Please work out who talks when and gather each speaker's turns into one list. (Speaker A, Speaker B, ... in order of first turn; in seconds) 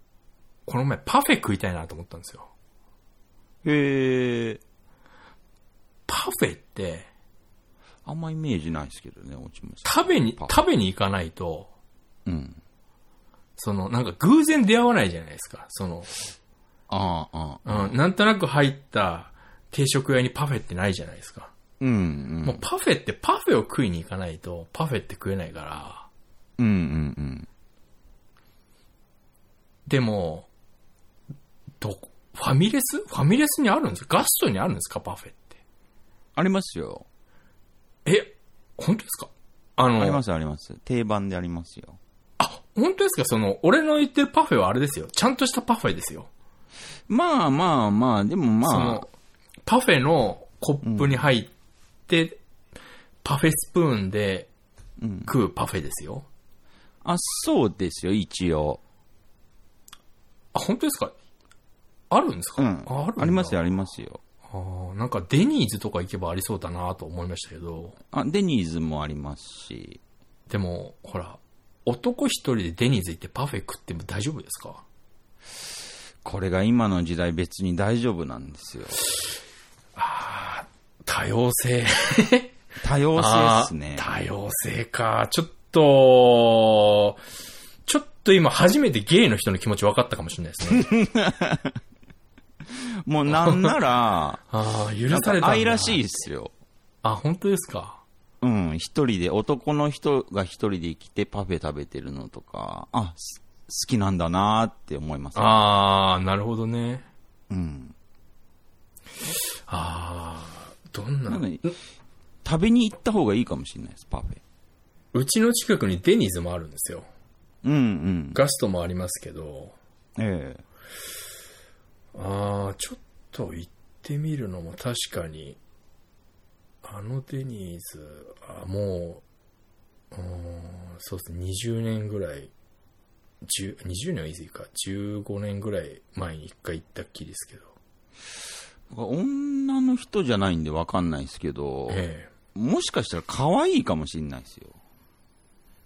Speaker A: 0.7-2.5, 6.1-7.1, 9.8-11.7, 13.6-16.1, 17.6-21.5, 22.4-26.1, 29.9-30.5, 31.8-35.6, 38.0-40.2, 42.4-46.3, 48.6-49.1, 49.6-51.5, 52.1-52.4, 53.2-54.5, 55.2-56.3, 60.5-61.1, 62.1-63.6, 64.5-68.0, 70.5-74.8, 80.0-82.5, 83.1-87.2, 87.8-90.9, 94.5-96.0, 97.0-98.0, 105.3-107.1, 109.7-111.8, 115.1-117.1, 118.3-119.7, 122.1-125.6, 126.8-129.2, 130.1-132.5, 133.4-137.7, 141.9-142.3
Speaker B: 3.6-4.6, 8.0-10.6, 12.2-12.6, 16.9-18.0, 21.8-22.6, 26.6-27.5, 36.4-37.0, 40.0-42.0, 47.1-49.0, 50.8-51.2, 55.0-55.3, 57.0-58.8, 62.6-64.2, 68.1-70.0, 76.2-79.0, 82.8-84.1, 90.7-91.8, 92.6-94.4, 95.1-96.5, 98.4-105.6, 107.5-107.9, 111.3-111.6, 112.4-114.4, 117.6-118.4, 120.2-120.6, 138.9-144.8